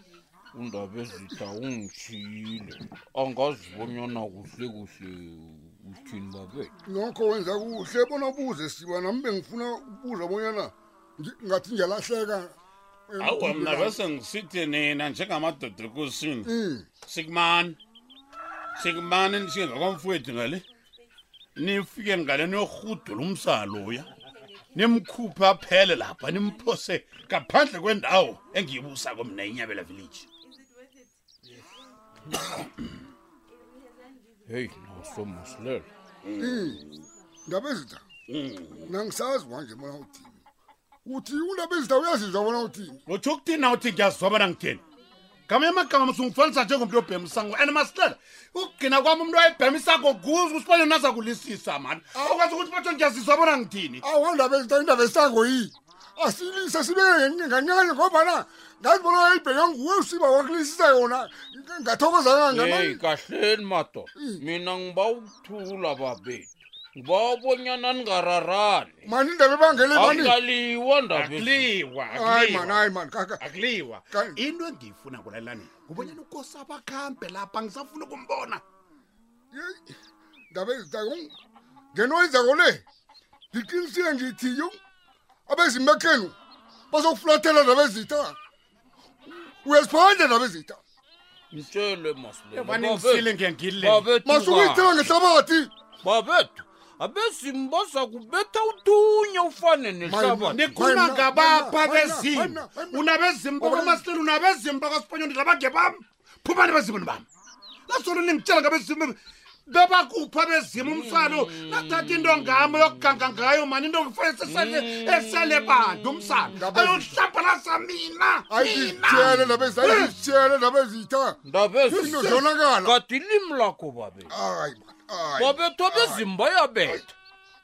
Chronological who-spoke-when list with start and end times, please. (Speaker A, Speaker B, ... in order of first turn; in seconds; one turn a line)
Speaker A: 0.5-6.7
Speaker B: 6.8-12.5
Speaker B: 13.1-14.0
Speaker C: 13.2-16.5
Speaker B: 16.4-16.9
Speaker C: 17.0-17.8
Speaker C: 18.8-20.6
Speaker C: 21.6-24.1
Speaker C: 24.7-30.3
Speaker A: 34.5-35.9
Speaker C: 36.2-37.1
Speaker B: 36.4-36.8
Speaker B: 37.5-38.0
Speaker C: 38.3-38.9
Speaker B: 38.9-40.3
Speaker B: 41.0-43.0
Speaker C: 43.1-44.8
Speaker C: 45.5-54.0
Speaker B: 54.0-63.0
Speaker A: 62.5-69.1
Speaker B: 64.2-64.4
Speaker B: 69.1-70.4
Speaker A: 69.9-71.7
Speaker C: 69.9-70.3
Speaker C: 71.1-72.8
Speaker B: 72.1-73.4
Speaker C: 73.4-78.6
Speaker B: 74.1-74.4
Speaker B: 79.5-79.8
Speaker B: 80.5-81.3
Speaker B: 81.9-82.8
Speaker B: 83.5-84.8
Speaker B: 85.5-86.3
Speaker B: 86.9-88.4
Speaker B: 89.6-90.8
Speaker A: 91.5-94.9
Speaker C: 92.5-94.2
Speaker B: 94.2-95.7
Speaker A: 96.0-100.8
Speaker B: 100.0-103.1
Speaker C: 100.5-107.3
Speaker B: 103.6-104.0
Speaker C: 107.9-120.1
Speaker A: 110.8-112.8
Speaker A: 114.4-116.6
Speaker B: 116.6-117.2
Speaker B: 118.5-123.0
Speaker A: 121.5-124.3
Speaker C: 122.0-122.4
Speaker B: 124.3-126.3
Speaker A: 125.3-127.1